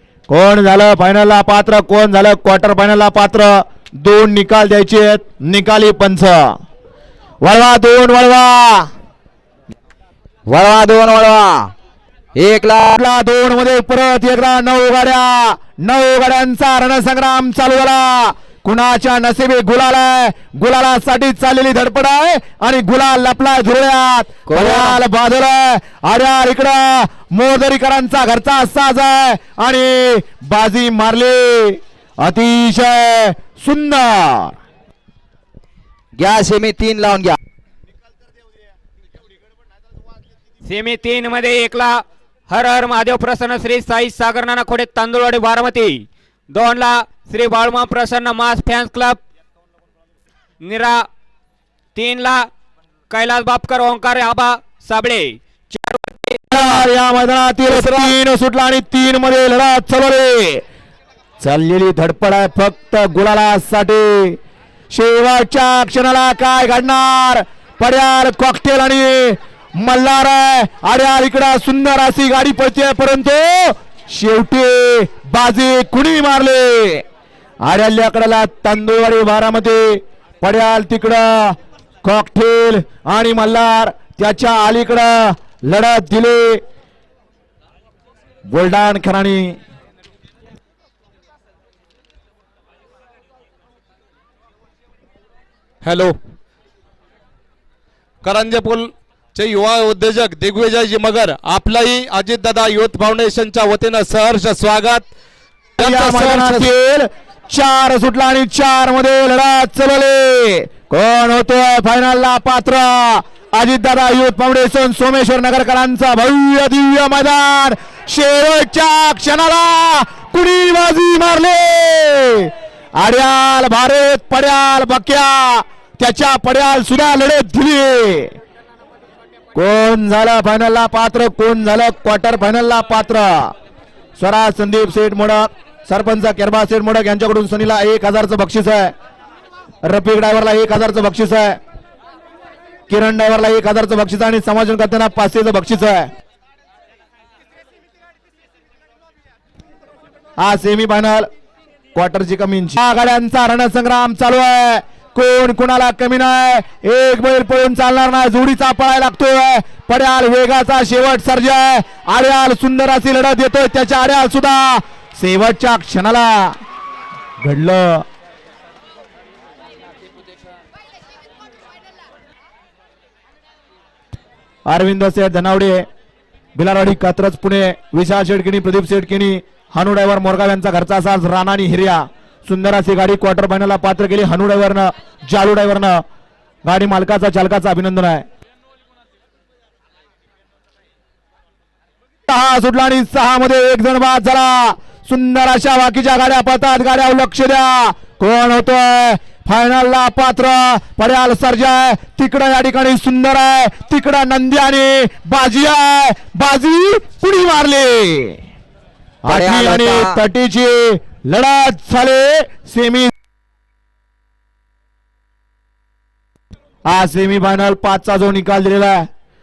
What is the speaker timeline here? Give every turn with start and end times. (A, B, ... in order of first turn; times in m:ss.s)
0:00.3-0:06.6 A
0:07.4-0:08.9 A
0:10.5-0:11.7 B
0:12.4-0:13.0 B
0:12.9-0:34.5 A
0:24.5-0:25.0 B
0:36.2-0:37.4 B
0:40.6-0:49.2 C
0:50.6-0:51.1 C
0:51.9-0:52.5 C
0:53.1-0:56.8 C
0:56.5-1:00.6 A
1:01.4-1:04.4 A
1:04.9-1:17.0 A
1:17.6-1:26.6 A
1:28.5-1:29.6 A
1:35.8-1:36.2 D
1:38.2-1:45.1 D
1:45.8-1:46.7 D
1:45.8-2:08.4 A
2:09.5-2:13.5 A
2:14.2-2:18.9 A
2:19.8-2:21.6 A
2:22.9-2:26.1 A
2:30.4-2:31.3 A
2:31.9-2:46.6 A
2:47.4-2:48.0 A
2:54.7-2:55.8 A
2:56.5-3:06.0 A
3:06.6-3:08.2 A
3:12.3-3:28.4 A
3:29.2-3:33.1 A
3:29.3-3:30.2 B
3:36.9-3:39.1 A